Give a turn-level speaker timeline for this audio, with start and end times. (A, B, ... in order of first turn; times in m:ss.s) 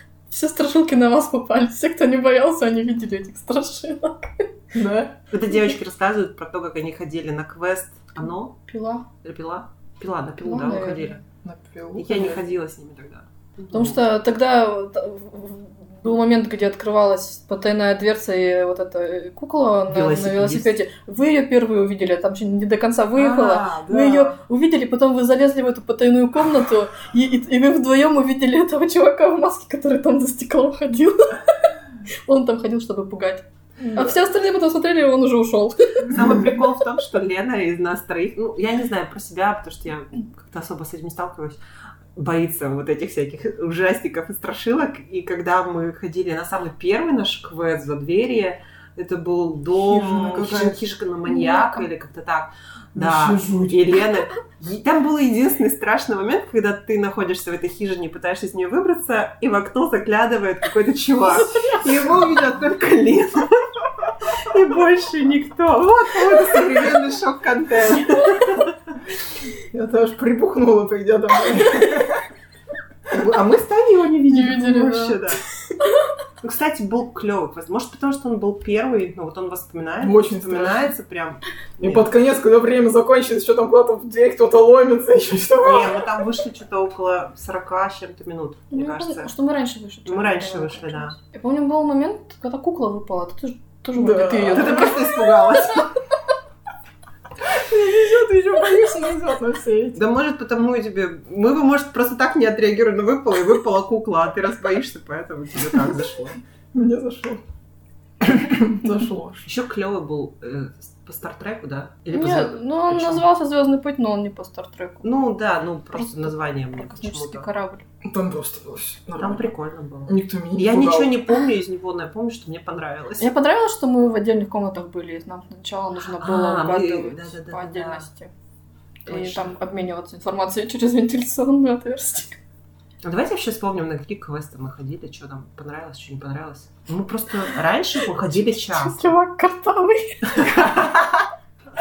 0:00.3-0:04.5 A
0:04.7-0:05.2 B
0:05.3-0:08.6 C
0:08.7-0:09.1 A
0:09.2-0:11.2 C
0:10.4-0:11.2 A
0:11.4-0:12.4 B
0:12.0-0:14.0 C
0:13.7-0:31.7 A
0:19.9-0:20.8 C
0:23.2-0:24.3 B
0:32.3-0:36.1 A
0:33.8-0:34.2 B
0:36.1-0:41.6 C
0:42.2-1:08.7 C
0:49.8-0:50.8 B
0:51.3-0:51.9 A
0:53.0-0:54.1 B
1:09.7-1:12.2 B
1:13.1-1:15.4 C
1:14.3-1:15.2 A
1:16.4-1:22.1 C
1:20.0-1:20.9 B
1:21.8-1:26.1 B
1:25.6-1:29.3 C
1:28.7-1:35.2 A
1:30.1-1:31.2 C
1:34.0-1:34.9 B
1:34.5-1:35.9 C
1:37.4-1:40.0 B
1:40.0-1:46.4 C
1:46.7-1:47.4 B
1:48.2-1:49.5 B
1:49.4-1:53.3 C
1:52.1-1:55.1 A
1:55.0-1:57.5 C
1:55.9-1:57.8 A
1:58.0-1:59.5 B
1:59.2-2:03.3 C
2:00.1-2:01.2 B
2:03.2-2:08.3 A
2:06.2-2:08.1 C
2:09.1-2:09.5 C
2:09.1-2:12.4 A
2:13.0-2:19.1 C
2:18.6-2:20.8 A
2:20.3-2:21.1 C